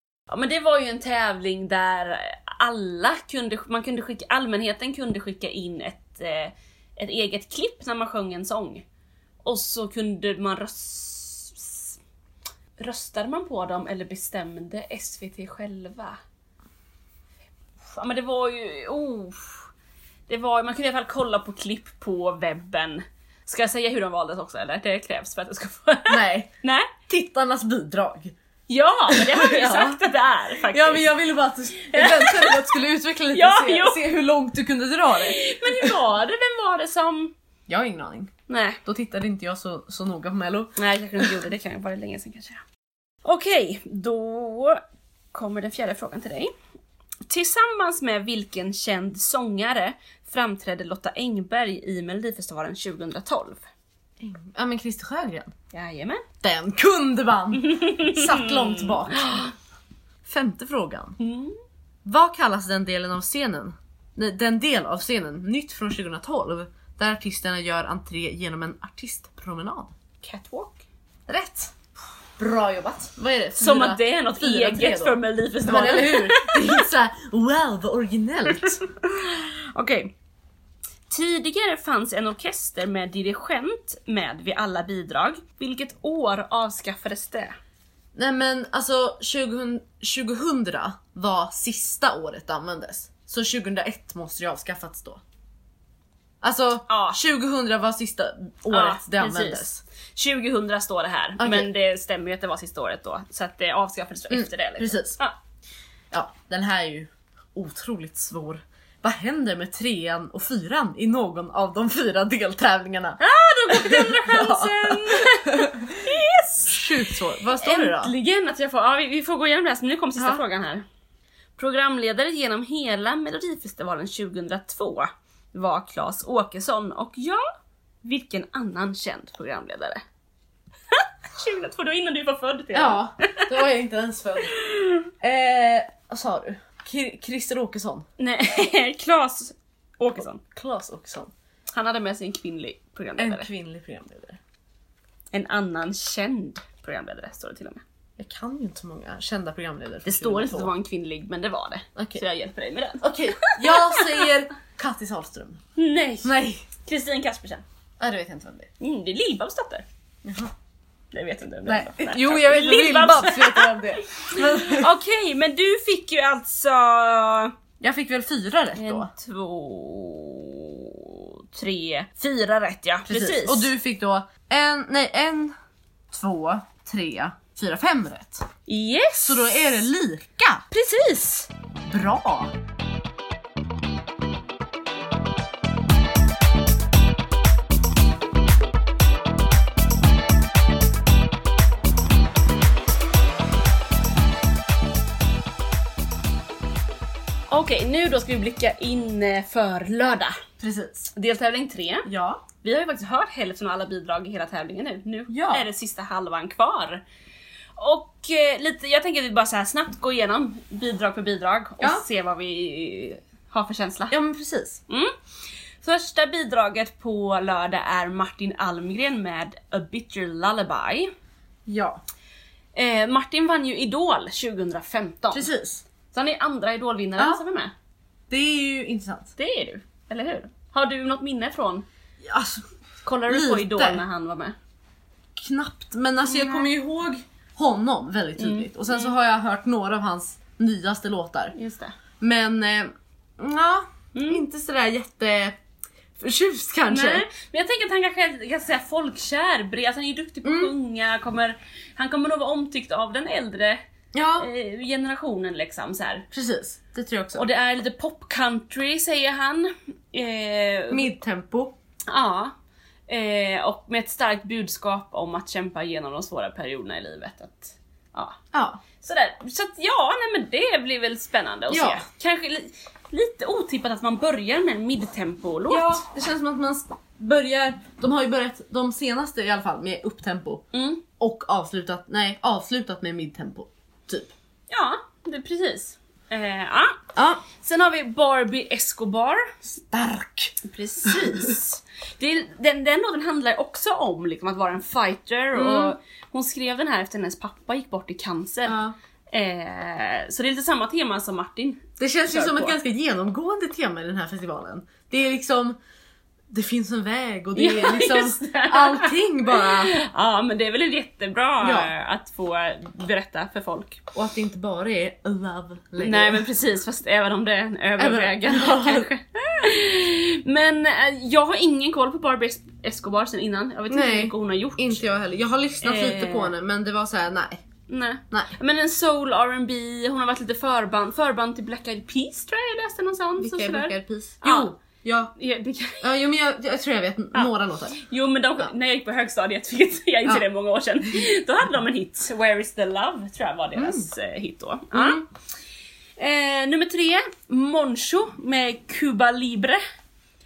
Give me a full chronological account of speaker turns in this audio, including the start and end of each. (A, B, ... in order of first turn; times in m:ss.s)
0:00.3-0:08.8 A
0:09.4-0:12.0 A
0:12.8-0:16.2 A
0:17.8-0:19.7 A
0:20.3-0:26.9 A
0:26.1-0:26.5 B
0:27.1-0:28.3 B
0:28.7-0:31.2 A
0:29.1-0:30.0 B
0:30.7-0:35.9 B
0:31.8-0:32.8 A
0:33.3-0:34.0 A
0:35.1-0:37.3 A
0:37.7-0:38.3 B
0:38.5-0:38.8 A
0:38.8-0:41.3 B
0:40.8-0:42.6 A
0:43.2-0:44.8 A
0:45.3-0:46.5 A
0:47.3-0:53.6 A
0:54.2-0:55.5 B
0:55.7-0:56.2 A
0:56.4-0:59.5 B
0:57.7-0:59.5 A
1:00.2-1:01.2 B
1:01.2-1:01.6 A
1:02.0-1:09.9 B
1:10.2-1:10.8 A
1:11.3-1:11.7 B
1:12.4-1:18.8 B
1:13.6-1:16.8 A
1:18.6-1:20.1 A
1:21.1-1:27.6 A
1:28.1-1:35.2 B
1:36.4-1:39.8 B
1:36.9-1:37.2 A
1:38.7-1:45.3 A
1:41.4-1:41.7 B
1:44.3-1:45.2 B
1:46.1-1:55.9 B
1:53.2-2:00.8 A
1:56.7-1:58.1 B
2:01.6-2:07.4 A
2:08.0-2:10.0 A
2:10.9-2:13.6 A
2:12.7-2:14.6 B
2:14.5-2:15.1 A
2:15.2-2:18.0 B
2:18.2-2:20.4 A
2:20.4-2:21.3 B
2:21.7-2:23.5 A
2:23.2-2:24.4 B
2:25.3-2:27.8 A
2:28.2-2:30.7 B
2:30.0-2:34.3 A
2:32.0-2:32.2 B
2:33.0-2:35.6 B
2:35.8-2:37.6 A
2:36.2-2:36.6 B
2:38.0-2:38.7 B
2:38.8-2:39.8 A
2:40.2-2:40.5 B
2:41.1-2:47.5 A
2:41.6-2:44.9 B
2:47.8-2:49.1 B
2:48.7-2:53.7 A
2:53.1-2:55.5 B
2:56.1-2:58.5 B
2:58.7-2:59.8 A
2:59.2-3:00.6 B
3:00.7-3:01.5 A
3:01.8-3:02.5 B
3:17.5-3:20.4 A
3:20.6-3:21.1 B
3:21.1-3:22.1 A
3:22.0-3:22.4 B
3:22.6-3:27.0 A
3:25.3-3:25.7 B
3:27.8-3:34.2 A
3:31.8-3:32.0 B
3:34.1-3:34.8 B
3:34.9-3:35.1 A
3:35.8-3:41.1 A
3:41.6-3:42.0 B
3:42.7-3:45.5 A
3:45.3-3:45.8 B
3:46.1-3:47.7 A
3:48.3-3:49.3 B
3:49.4-3:51.8 A
3:52.2-3:52.6 B
3:53.0-3:54.5 A
3:53.3-3:54.0 B
3:55.4-4:01.5 B
3:56.2-3:56.7 A
3:58.4-3:59.1 A
4:01.5-4:01.9 A
4:02.2-4:05.6 B
4:04.1-4:04.4 A
4:06.2-4:07.2 B
4:06.9-4:13.8 A
4:10.4-4:10.7 B
4:14.1-4:14.5 B
4:14.4-4:16.2 A
4:16.3-4:17.4 B
4:17.3-4:21.1 A
4:20.9-4:21.7 B
4:22.1-4:22.5 A
4:23.1-4:28.4 A
4:28.5-4:28.8 B
4:29.0-4:36.0 A
4:31.7-4:32.0 B
4:35.7-4:40.6 B
4:40.7-4:41.0 A
4:41.2-4:44.3 B
4:44.7-4:47.0 A
4:47.2-4:47.4 B
4:47.6-4:49.5 A
4:49.6-4:51.5 B
4:50.6-4:58.8 A
4:55.5-4:55.9 B
4:58.6-4:58.9 B
4:59.3-5:02.8 A
5:02.0-5:05.8 B
5:06.5-5:10.0 B
5:07.5-5:14.0 A
5:11.6-5:11.9 B
5:14.1-5:16.4 B
5:16.0-5:25.0 A
5:18.0-5:19.1 B
5:23.9-5:27.6 B
5:25.8-5:26.5 A
5:27.9-5:34.7 A
5:33.4-5:35.3 B
5:35.3-5:36.0 A
5:36.0-5:38.0 B
5:37.3-5:45.2 A
5:43.8-5:44.1 B
5:44.9-5:45.2 B
5:46.2-5:49.8 A